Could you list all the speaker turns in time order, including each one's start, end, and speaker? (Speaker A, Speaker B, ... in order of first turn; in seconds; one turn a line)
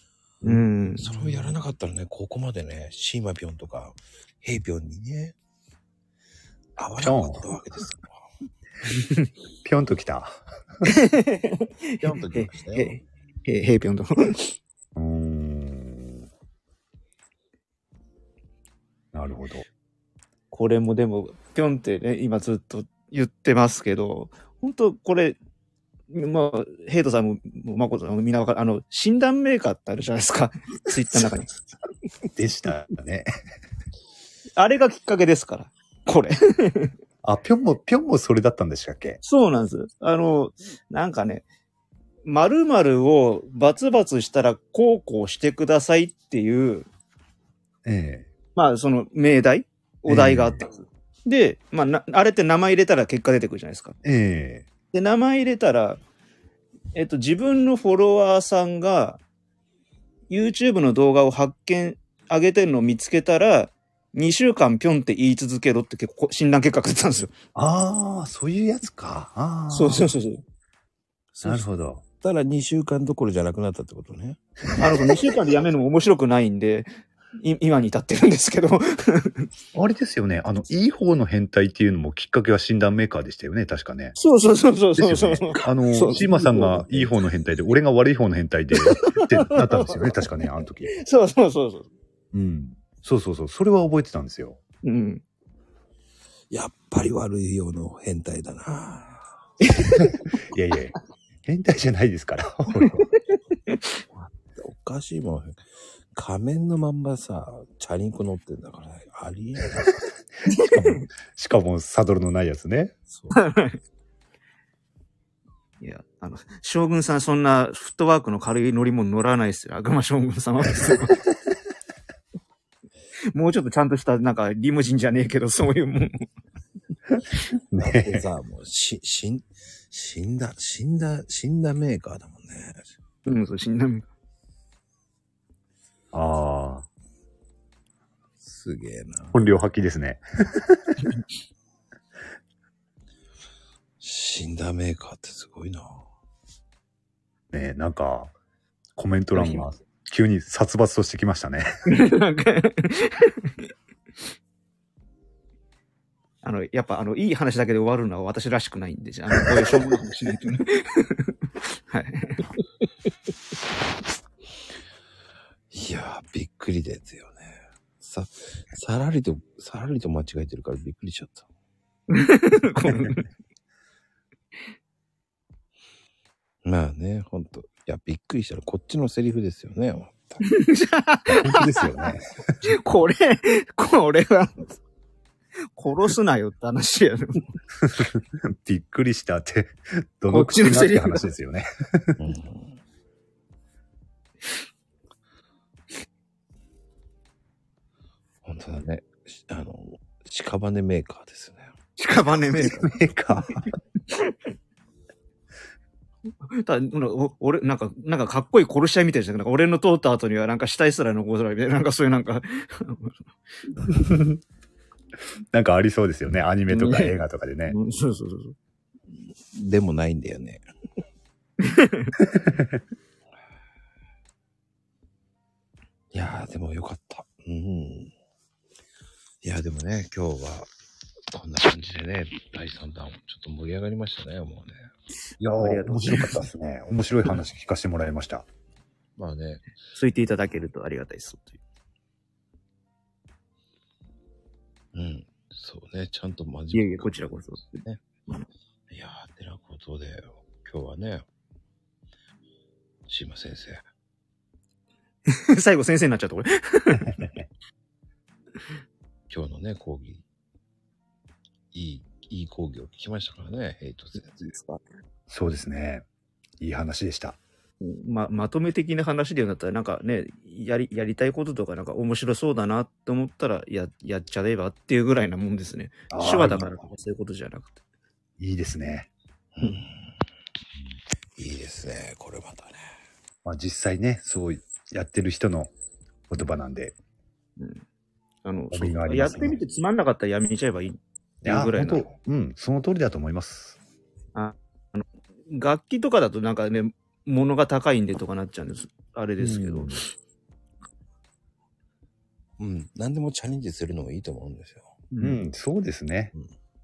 Speaker A: 0.4-1.1
Speaker B: 0.5-5.4
Speaker B: 6.8-8.2
Speaker C: 7.0-7.5
Speaker A: 8.9-9.3
Speaker C: 9.6-10.4
Speaker A: 10.8-14.5
Speaker B: 12.0-13.0
Speaker C: 14.9-16.3
Speaker C: 19.1-19.7
Speaker A: 20.5-25.4
Speaker A: 26.1-31.6
Speaker C: 32.4-33.3
Speaker A: 34.6-36.9
Speaker C: 37.2-39.2
Speaker A: 39.2-41.5
Speaker A: 42.3-46.9
Speaker C: 47.9-48.3
Speaker A: 48.6-54.0
Speaker C: 50.1-50.6
Speaker C: 54.0-54.7
Speaker A: 54.9-56.0
Speaker A: 57.0-59.2
Speaker A: 60.3-67.3
Speaker C: 67.5-70.1
Speaker A: 69.7-70.4
Speaker B: 71.3-74.4
Speaker C: 71.4-72.0
Speaker A: 74.8-79.5
Speaker C: 79.8-84.2
Speaker A: 84.2-87.1
Speaker C: 85.0-91.0
Speaker A: 88.7-90.3
Speaker A: 90.9-91.9
Speaker C: 92.3-94.6
Speaker A: 94.8-95.2
Speaker B: 96.5-99.3
Speaker A: 99.6-100.2
Speaker C: 100.5-103.1
Speaker B: 104.1-105.6
Speaker B: 106.1-110.0
Speaker A: 110.5-111.0
Speaker C: 110.5-113.0
Speaker B: 113.1-113.4
Speaker A: 113.3-113.8
Speaker A: 115.8-121.2
Speaker A: 123.3-126.3
Speaker C: 127.7-128.2
Speaker B: 127.8-132.9
Speaker A: 133.2-134.1
Speaker C: 136.1-136.9
Speaker B: 138.4-139.4
Speaker C: 139.3-141.0
Speaker B: 144.0-146.0
Speaker C: 147.5-148.3
Speaker C: 149.0-151.7
Speaker A: 149.3-149.7
Speaker A: 151.9-153.7
Speaker A: 156.4-161.3
Speaker A: 161.9-162.5
Speaker B: 165.7-171.5
Speaker A: 172.1-173.3
Speaker B: 176.6-180.4
Speaker A: 180.4-182.1
Speaker C: 181.3-182.2
Speaker A: 182.6-184.8
Speaker A: 185.8-187.5
Speaker C: 187.9-192.2
Speaker A: 190.3-191.3
Speaker B: 192.2-192.8
Speaker B: 198.4-201.7
Speaker A: 202.0-202.9
Speaker C: 202.6-203.7
Speaker A: 206.5-213.2
Speaker C: 213.9-214.4
Speaker C: 215.5-217.8
Speaker A: 216.7-217.1
Speaker A: 217.7-218.6
Speaker B: 219.5-220.6
Speaker A: 221.6-222.1
Speaker B: 226.1-228.1
Speaker B: 229.4-230.7
Speaker B: 231.3-234.9
Speaker C: 235.4-238.5
Speaker A: 235.6-236.4
Speaker B: 239.2-239.6
Speaker A: 239.9-241.6
Speaker B: 244.9-248.0
Speaker A: 246.7-248.5
Speaker B: 248.9-251.3
Speaker B: 253.1-253.8
Speaker A: 255.3-257.2
Speaker C: 257.2-257.4
Speaker B: 259.3-260.2
Speaker B: 261.7-264.5
Speaker A: 264.2-264.8
Speaker C: 265.3-266.1
Speaker C: 266.6-267.4
Speaker A: 267.8-277.8
Speaker C: 276.1-276.9
Speaker C: 278.4-279.1
Speaker B: 279.6-280.1
Speaker B: 281.4-282.9
Speaker C: 283.4-285.7
Speaker C: 286.3-286.9
Speaker A: 287.6-287.8
Speaker A: 288.4-292.1
Speaker C: 288.7-289.6
Speaker C: 291.4-293.8
Speaker A: 294.4-300.0
Speaker C: 299.4-300.0
Speaker B: 302.6-305.0
Speaker A: 305.1-305.4
Speaker C: 305.2-306.4